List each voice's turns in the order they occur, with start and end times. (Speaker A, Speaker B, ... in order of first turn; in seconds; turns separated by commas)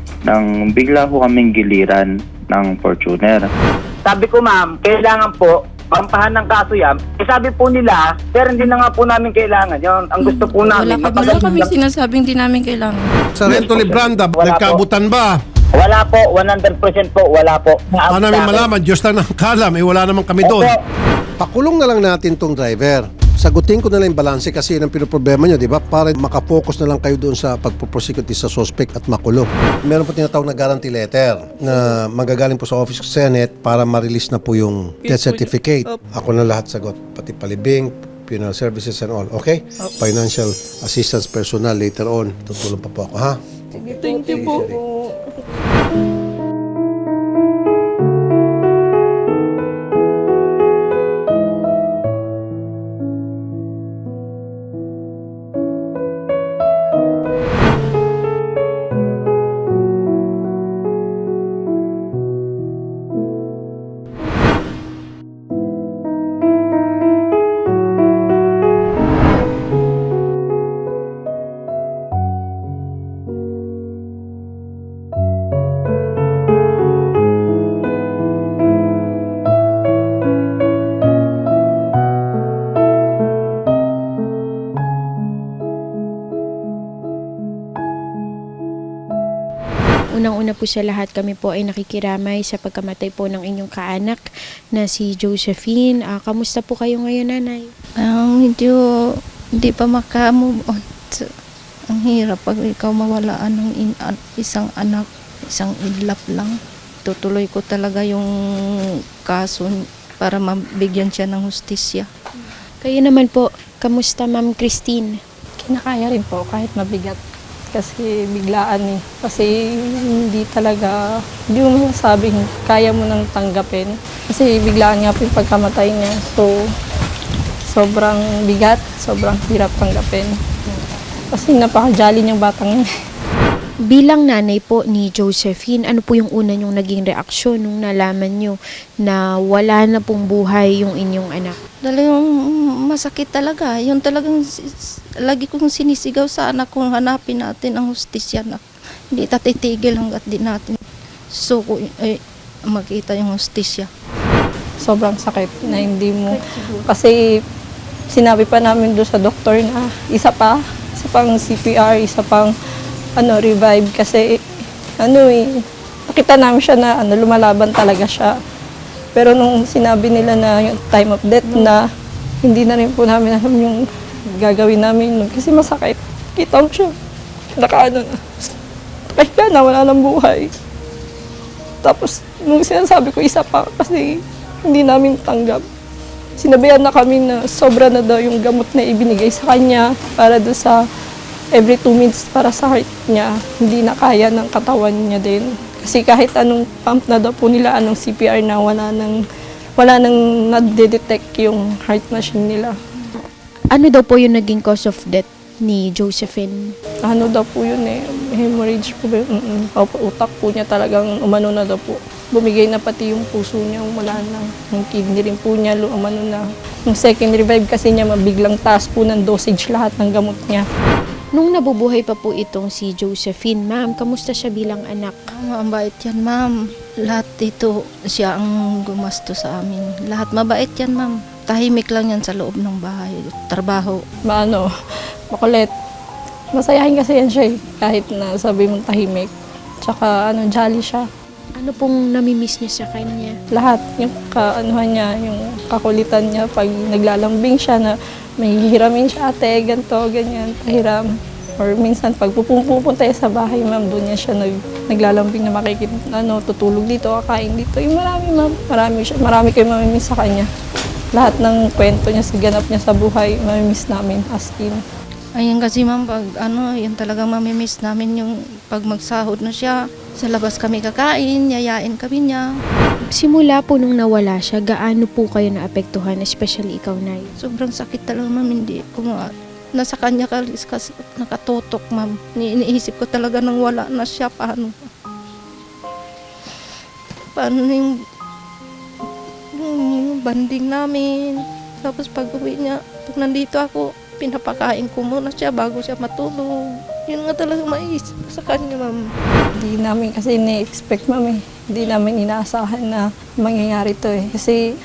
Speaker A: 0.3-3.4, Speaker B: 4.0-11.8, Speaker C: 10.7-13.1, Speaker D: 11.0-11.5, Speaker E: 13.4-15.3, Speaker B: 13.4-14.8, Speaker B: 15.7-18.7, Speaker E: 18.0-20.7, Speaker B: 20.4-20.8, Speaker E: 21.4-43.4, Speaker C: 35.0-36.0, Speaker C: 43.8-45.2, Speaker D: 44.1-44.4, Speaker E: 44.3-44.8, Speaker F: 90.1-94.2, Speaker F: 94.7-97.7, Speaker D: 98.0-98.8, Speaker D: 99.5-101.3, Speaker D: 101.9-112.0, Speaker F: 112.8-115.2, Speaker C: 115.6-117.2, Speaker C: 117.7-121.0, Speaker C: 121.5-126.6, Speaker C: 127.7-130.3, Speaker C: 131.3-132.8, Speaker F: 133.9-141.6, Speaker D: 141.8-150.8, Speaker D: 151.3-152.2, Speaker D: 152.7-153.9, Speaker C: 154.8-157.2, Speaker D: 155.7-156.8, Speaker C: 158.1-162.5, Speaker C: 163.2-164.4, Speaker C: 165.0-168.3, Speaker C: 169.1-171.8, Speaker C: 172.4-173.8, Speaker C: 174.3-176.9, Speaker C: 177.5-178.2, Speaker C: 179.1-180.5, Speaker C: 181.8-185.6, Speaker C: 186.4-190.8, Speaker C: 191.5-199.2, Speaker C: 199.8-202.7, Speaker F: 203.7-206.7, Speaker C: 207.1-220.6, Speaker F: 221.3-225.1, Speaker D: 225.3-226.5, Speaker D: 227.0-234.0, Speaker C: 234.2-234.7, Speaker C: 235.3-235.7, Speaker C: 236.5-239.3, Speaker C: 239.8-241.0, Speaker F: 241.6-243.3, Speaker C: 243.5-260.5, Speaker C: 261.1-264.8, Speaker D: 265.4-272.4, Speaker F: 273.1-277.3, Speaker D: 277.4-284.9, Speaker D: 287.3-287.9, Speaker D: 289.5-299.0, Speaker C: 299.6-304.6